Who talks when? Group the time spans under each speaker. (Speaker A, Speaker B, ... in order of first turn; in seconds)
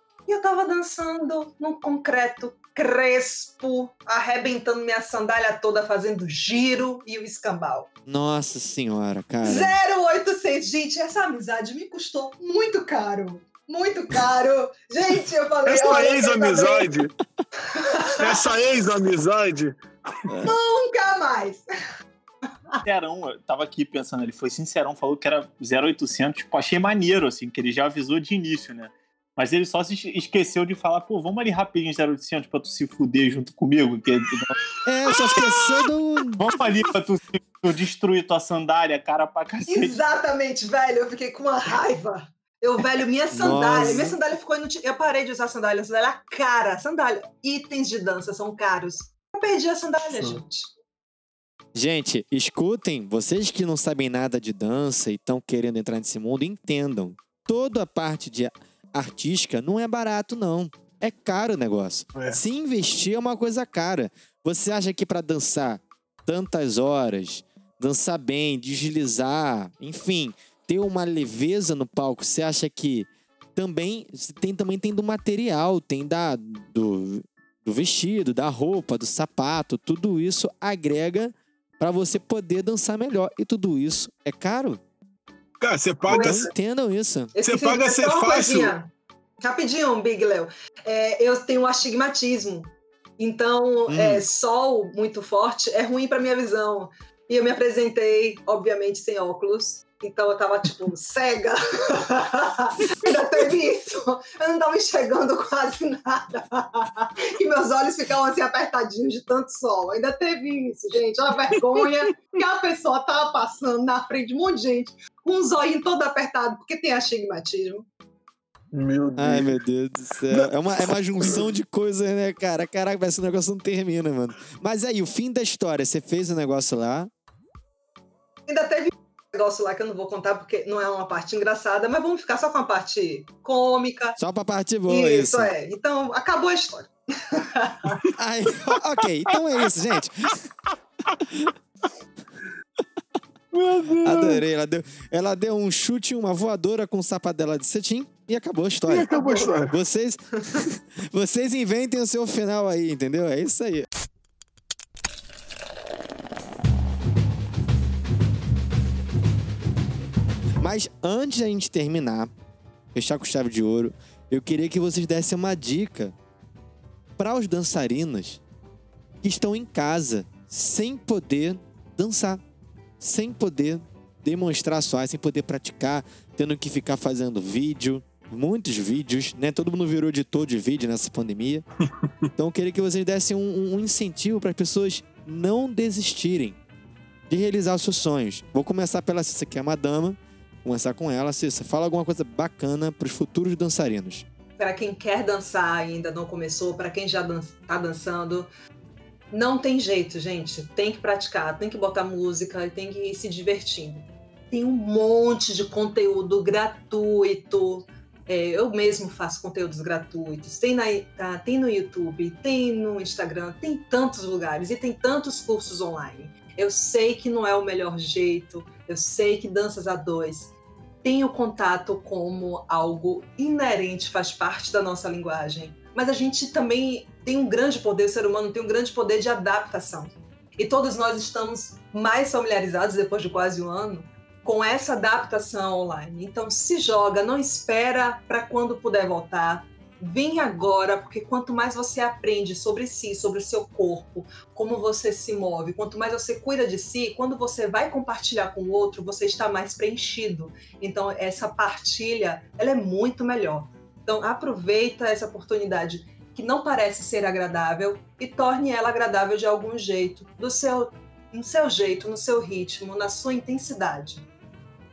Speaker A: 0.3-7.9, 9.4-16.9, 17.7-18.5, 20.4-21.6, 39.7-50.7, 86.1-86.5, 87.3-88.9, 89.4-117.9, 128.5-134.2, 134.9-138.0, 194.6-198.5, 199.3-264.2
Speaker B: 8.1-9.7, 34.9-36.4, 43.3-44.2, 51.7-84.8, 86.1-87.3, 93.9-94.2, 119.2-127.1, 134.2-135.5, 138.2-140.5, 144.0-149.1, 149.7-153.9, 160.6-162.3, 162.9-166.1, 167.2-168.4, 169.2-172.4, 173.0-181.7, 182.3-186.6, 187.3-194.2
Speaker C: 15.7-17.1, 18.2-19.8, 35.1-35.6, 50.1-50.4, 62.1-62.4, 85.6-86.5, 87.4-88.7, 118.7-119.6, 143.5-144.4, 148.9-149.8
Speaker D: 22.8-34.6, 36.4-39.9